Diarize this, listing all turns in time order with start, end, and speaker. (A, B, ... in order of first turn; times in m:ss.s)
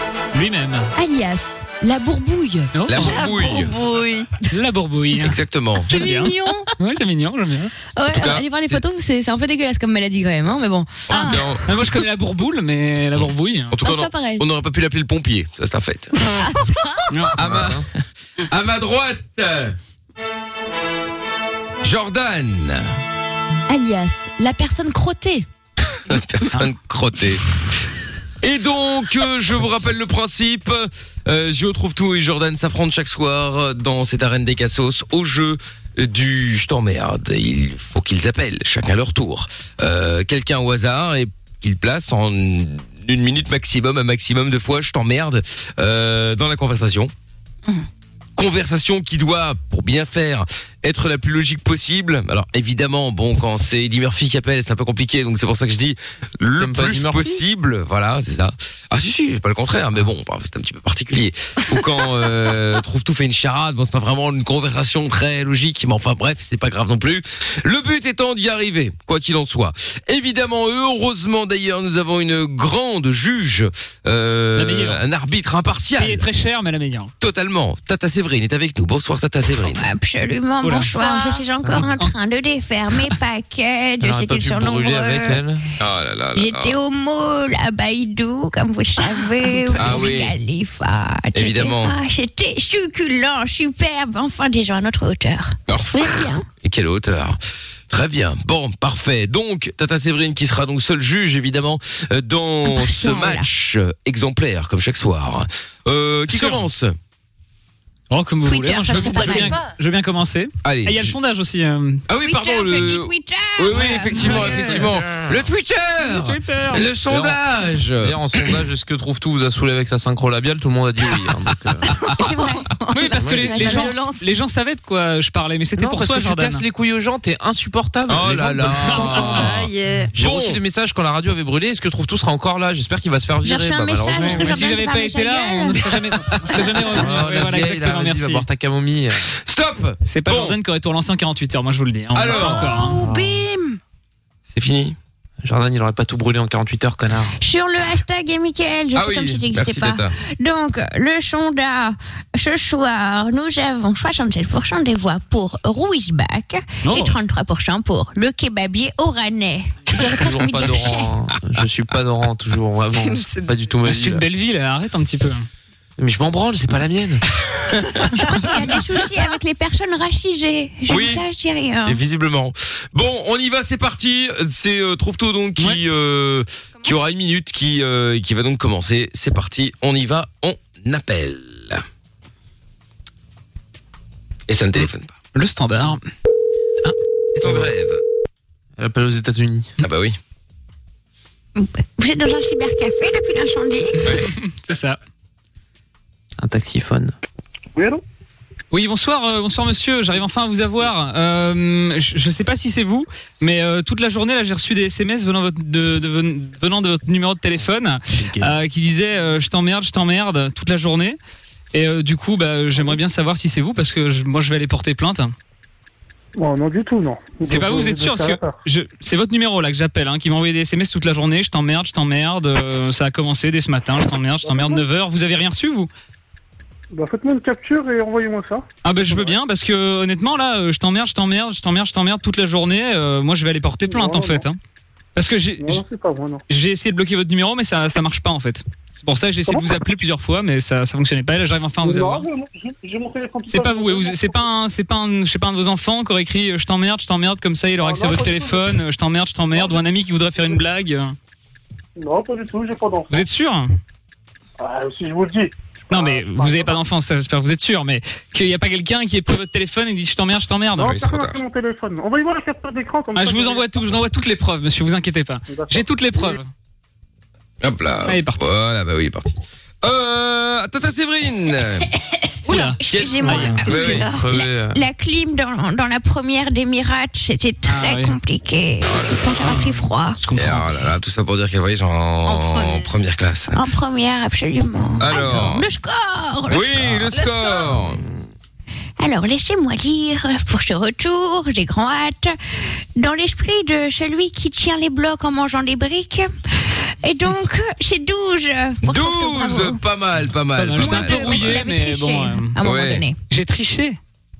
0:00.3-0:00.9 A
0:01.0-0:02.7 B
0:02.7-0:03.2 A
0:02.9-0:03.7 C
0:02.9-0:04.3 D
0:04.5-0:07.7 A
0:05.2-0:05.9 C
0:06.2-0:06.6 B
0:06.2-0:06.6 D
0:08.0-0:11.0 B
0:08.1-0:08.8 C
0:11.1-0:11.6 C
0:11.1-0:11.6 D
0:11.1-0:13.7 A
0:13.7-0:16.1 C
0:13.8-0:14.4 B
0:16.4-0:17.0 B
0:17.1-0:17.4 A
0:17.4-0:17.8 C
0:17.4-0:17.8 E
0:18.5-0:19.8 C
0:21.8-0:22.9 C
0:23.7-0:25.5 B
0:26.1-0:27.4 C
0:28.4-0:47.1 C
0:48.4-1:16.2 C
0:56.6-0:57.4 E
1:14.6-1:15.0 A
1:16.0-1:17.1 A
1:17.2-1:19.9 C
1:19.6-1:25.4 F
1:20.6-1:21.0 A
1:21.0-1:21.4 D
1:21.6-1:22.0 E
1:21.7-1:22.1 A
1:24.0-1:25.7 E
1:25.8-1:26.8 C
1:26.3-1:36.4 F
1:29.7-1:30.4 C
1:31.3-1:32.0 C
1:35.7-1:37.4 C
1:37.9-1:46.9 C
1:42.6-1:43.5 F
1:46.3-1:46.6 A
1:48.1-1:52.0 A
1:48.4-1:49.6 F
1:49.0-1:49.7 D
1:50.6-1:51.1 C
1:52.1-1:58.4 C
1:52.2-1:54.8 F
1:54.2-1:54.8 A
1:56.0-1:56.8 A
1:57.0-1:57.4 E
1:58.0-2:01.8 E
2:02.2-2:04.3 D
2:02.2-2:02.6 F
2:02.9-2:06.6 A
2:03.2-2:03.6 E
2:05.8-2:09.5 E
2:08.1-2:10.6 C
2:08.9-2:09.4 A
2:09.0-2:10.2 D
2:10.1-2:14.7 E
2:13.4-2:15.9 F
2:14.2-2:18.5 A
2:16.9-2:19.3 E
2:19.4-2:20.6 C
2:20.0-2:23.0 A
2:22.1-2:22.9 C
2:23.1-2:23.4 F
2:24.5-2:25.0 C
2:25.4-2:27.3 E
2:27.4-2:41.1 F
2:28.9-2:30.2 C
2:36.8-2:37.2 A
2:39.9-2:44.2 E
2:42.9-2:43.6 D
2:43.8-2:45.5 A
2:46.0-2:47.2 E
2:48.1-2:52.0 F
2:50.9-2:51.2 C
2:51.8-3:01.8 C
3:04.5-3:05.1 C
3:05.3-3:06.0 A
3:07.3-3:08.0 C
3:07.4-3:07.7 E
3:08.8-3:09.7 E
3:09.8-3:10.2 C
3:11.6-3:14.1 F
3:14.1-3:15.0 A
3:16.4-3:17.1 E
3:17.8-3:18.0 G
3:18.7-3:31.2 A
3:28.1-3:28.5 E
3:31.7-3:35.3 A
3:36.4-3:38.6 G
3:37.4-3:45.9 A
3:44.4-3:44.8 G
3:46.9-3:49.3 G
3:48.8-3:54.6 A
3:53.8-3:54.4 G
3:55.1-3:55.8 A
3:55.6-3:56.4 G
3:56.5-4:02.3 A
4:01.8-4:04.5 G
4:03.5-4:11.2 A
4:07.8-4:08.7 G
4:09.5-4:09.8 G
4:12.0-4:13.2 G
4:13.1-4:13.7 A
4:14.6-4:16.8 G
4:15.9-4:21.0 A
4:20.8-4:23.7 G
4:20.8-4:21.4 C
4:23.1-4:26.5 A
4:25.5-4:26.3 G
4:27.6-4:31.9 C
4:28.0-4:28.4 A
4:32.5-4:33.6 A
4:32.5-4:40.2 F
4:32.5-4:34.1 C
4:33.3-4:34.8 E
4:33.6-4:34.3 D
4:37.6-4:38.2 A
4:38.8-4:39.2 C
4:40.2-4:40.6 A
4:40.3-4:43.5 C
4:42.2-4:42.9 D
4:43.5-4:47.0 F
4:45.0-4:45.7 C
4:46.5-4:48.0 C
4:47.1-4:47.8 D
4:49.0-4:52.4 F
4:53.0-4:59.8 F
4:58.8-5:01.6 C
5:00.6-5:02.5 A
5:00.7-5:03.2 F
5:02.6-5:03.0 C
5:03.3-5:04.0 A